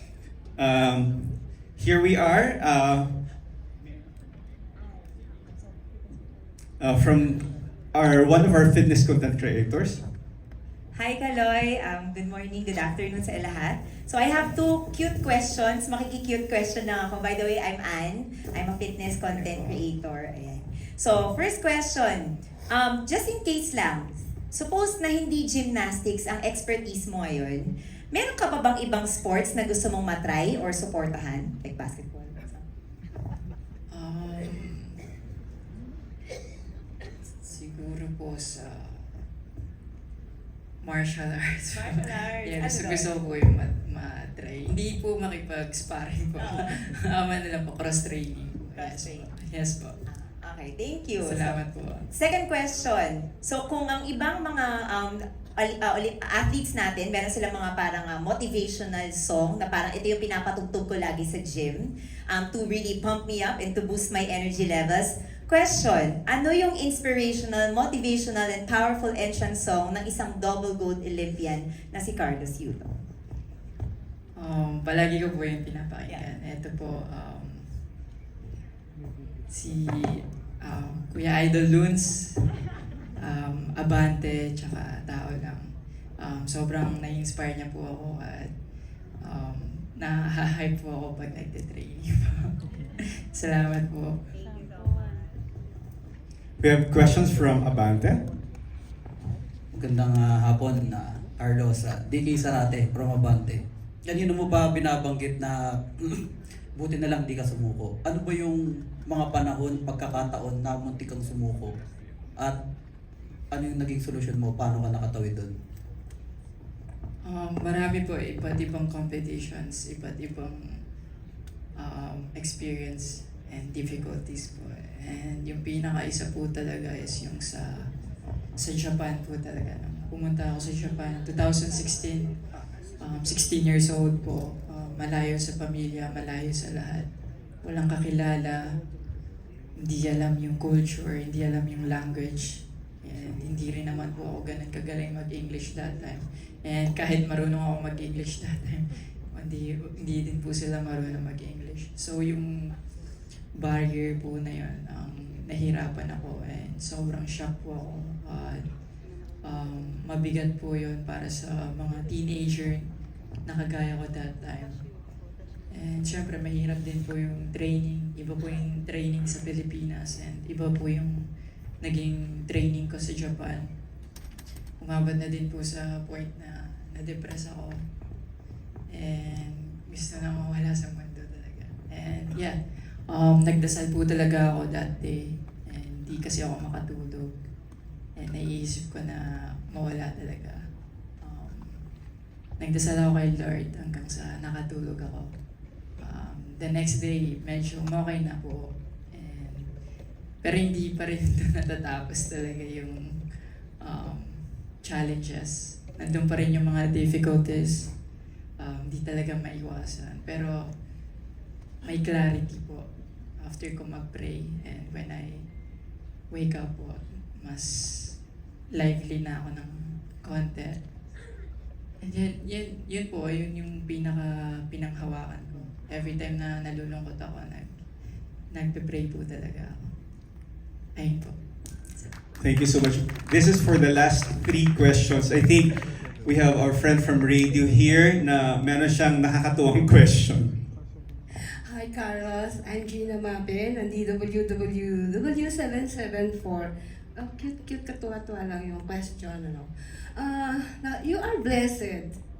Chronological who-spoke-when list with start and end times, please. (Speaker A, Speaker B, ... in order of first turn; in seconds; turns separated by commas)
Speaker A: 0.6-3.1, Speaker A: 6.8-10.0, Speaker B: 10.9-32.5, Speaker C: 19.3-19.8, Speaker C: 33.9-34.9, Speaker C: 37.4-39.2, Speaker C: 40.8-49.9, Speaker B: 41.7-43.1, Speaker B: 46.4-46.7, Speaker B: 48.8-49.3, Speaker B: 50.1-73.0, Speaker C: 51.2-52.1, Speaker C: 74.3-77.8, Speaker C: 79.5-82.4, Speaker C: 83.2-88.5, Speaker C: 89.2-92.5, Speaker C: 93.3-94.2, Speaker A: 96.6-98.2, Speaker D: 99.7-106.1, Speaker D: 106.8-111.7, Speaker D: 113.5-115.5, Speaker C: 117.2-120.6, Speaker C: 121.8-127.9, Speaker C: 128.6-132.3, Speaker C: 133.0-137.1, Speaker C: 137.6-138.6, Speaker C: 139.8-152.7, Speaker C: 153.5-158.6, Speaker C: 159.4-162.9, Speaker C: 163.4-164.8, Speaker C: 165.7-171.2, Speaker C: 171.8-173.7, Speaker C: 174.8-177.8, Speaker C: 178.9-187.3, Speaker C: 188.2-190.6, Speaker C: 191.2-191.8, Speaker C: 192.6-195.3, Speaker C: 196.0-199.7, Speaker C: 200.4-203.2, Speaker C: 203.8-207.9, Speaker C: 208.6-210.6, Speaker C: 211.8-212.8, Speaker C: 213.4-215.4, Speaker C: 216.3-218.2, Speaker C: 218.7-220.8, Speaker C: 222.0-227.8, Speaker C: 228.5-229.9, Speaker C: 230.9-231.3, Speaker A: 232.4-240.6, Speaker E: 241.3-252.2